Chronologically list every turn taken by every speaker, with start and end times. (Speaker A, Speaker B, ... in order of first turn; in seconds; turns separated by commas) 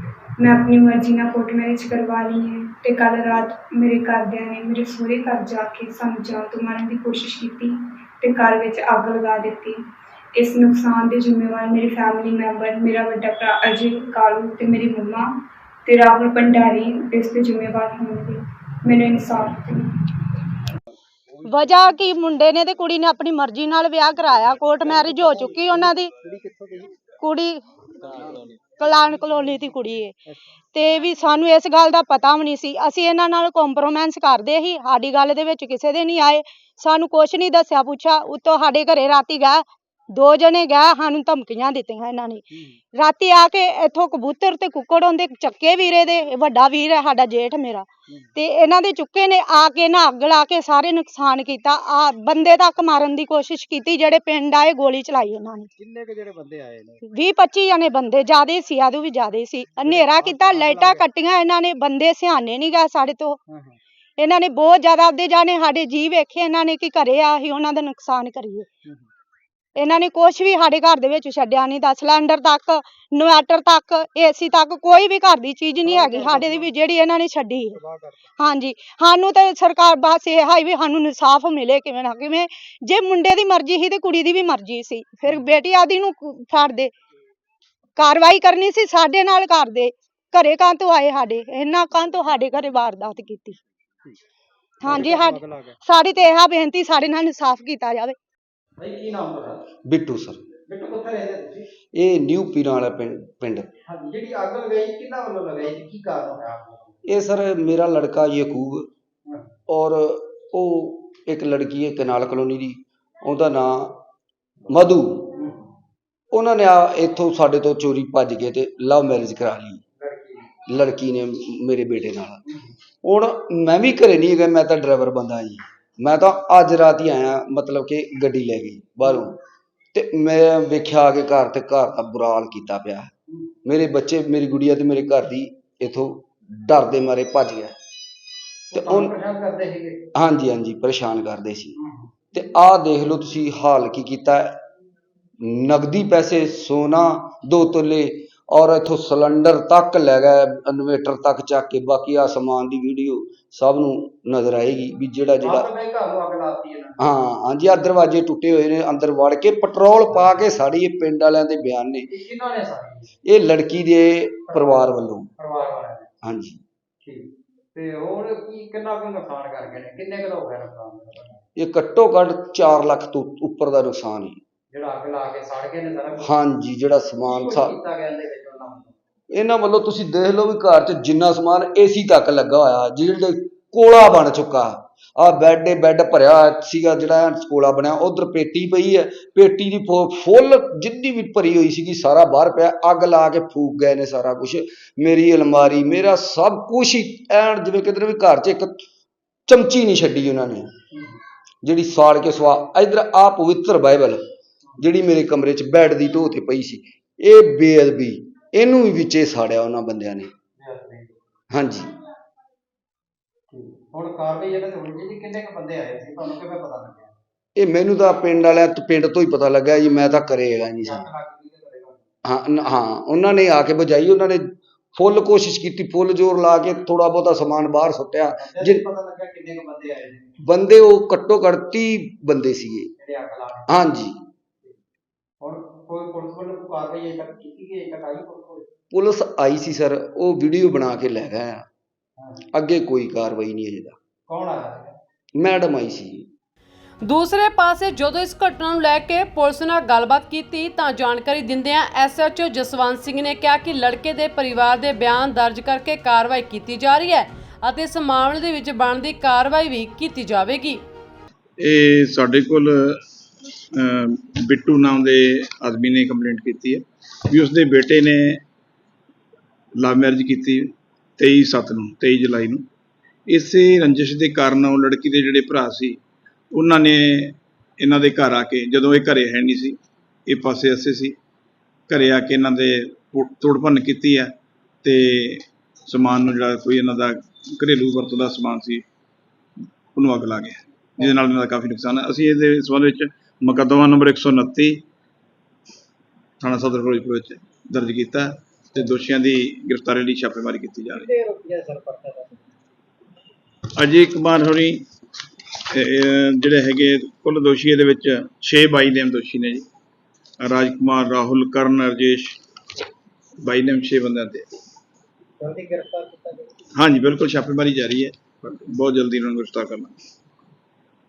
Speaker A: 0.4-15.3, Speaker A: 15.8-20.4, Speaker B: 21.4-26.1, Speaker C: 24.8-27.1, Speaker B: 27.2-27.6, Speaker C: 28.0-28.5, Speaker B: 28.8-30.1, Speaker B: 30.7-55.7, Speaker C: 55.8-57.0, Speaker B: 57.0-63.4, Speaker C: 59.8-61.1, Speaker C: 63.5-63.8, Speaker B: 64.2-68.7, Speaker B: 69.8-77.8, Speaker C: 75.8-76.8, Speaker C: 77.7-78.3, Speaker B: 78.4-86.9, Speaker B: 88.0-93.6, Speaker C: 94.8-95.8, Speaker B: 94.8-98.2, Speaker C: 98.8-99.6, Speaker D: 99.8-100.4, Speaker C: 100.7-101.7, Speaker D: 101.9-103.7, Speaker C: 103.9-107.0, Speaker D: 107.0-108.9, Speaker D: 109.7-114.0, Speaker D: 114.7-115.2, Speaker C: 115.3-115.6, Speaker D: 116.3-119.8, Speaker C: 120.0-120.5, Speaker D: 120.7-122.4, Speaker D: 123.0-129.3, Speaker D: 129.9-133.1, Speaker D: 133.7-137.7, Speaker C: 138.7-140.0, Speaker D: 138.7-139.1, Speaker D: 140.1-141.8, Speaker C: 141.8-142.1, Speaker D: 142.3-144.6, Speaker D: 145.4-155.7, Speaker C: 155.4-157.0, Speaker D: 157.0-162.1, Speaker C: 160.1-160.4, Speaker C: 162.1-163.1, Speaker D: 163.2-165.3, Speaker C: 164.5-166.1, Speaker D: 166.2-166.6, Speaker C: 167.0-171.4, Speaker D: 171.6-174.4, Speaker C: 174.7-176.3, Speaker D: 176.2-177.7, Speaker C: 177.2-178.9, Speaker D: 179.3-198.8, Speaker D: 199.5-200.7, Speaker D: 201.6-204.2, Speaker D: 204.8-210.3, Speaker C: 210.6-211.1, Speaker D: 211.5-211.9, Speaker C: 213.5-217.1, Speaker D: 217.6-221.0, Speaker C: 220.8-222.0, Speaker D: 222.2-228.8, Speaker C: 228.3-230.4, Speaker D: 230.4-232.9, Speaker C: 233.0-233.8, Speaker D: 233.7-234.1, Speaker C: 235.4-238.7, Speaker D: 238.9-241.6, Speaker C: 242.2-242.4, Speaker D: 242.5-243.9, Speaker C: 244.3-244.9, Speaker D: 245.4-246.3, Speaker E: 247.0-260.8, Speaker F: 261.6-263.0, Speaker F: 263.7-268.4, Speaker F: 269.8-272.6, Speaker F: 273.3-276.0, Speaker F: 276.5-281.1, Speaker F: 281.9-288.9, Speaker F: 289.9-294.8, Speaker F: 296.4-301.1, Speaker C: 300.9-302.4, Speaker F: 303.8-304.8, Speaker F: 305.7-309.6, Speaker F: 310.4-312.4, Speaker F: 313.4-314.5, Speaker C: 315.4-316.5, Speaker F: 316.8-319.9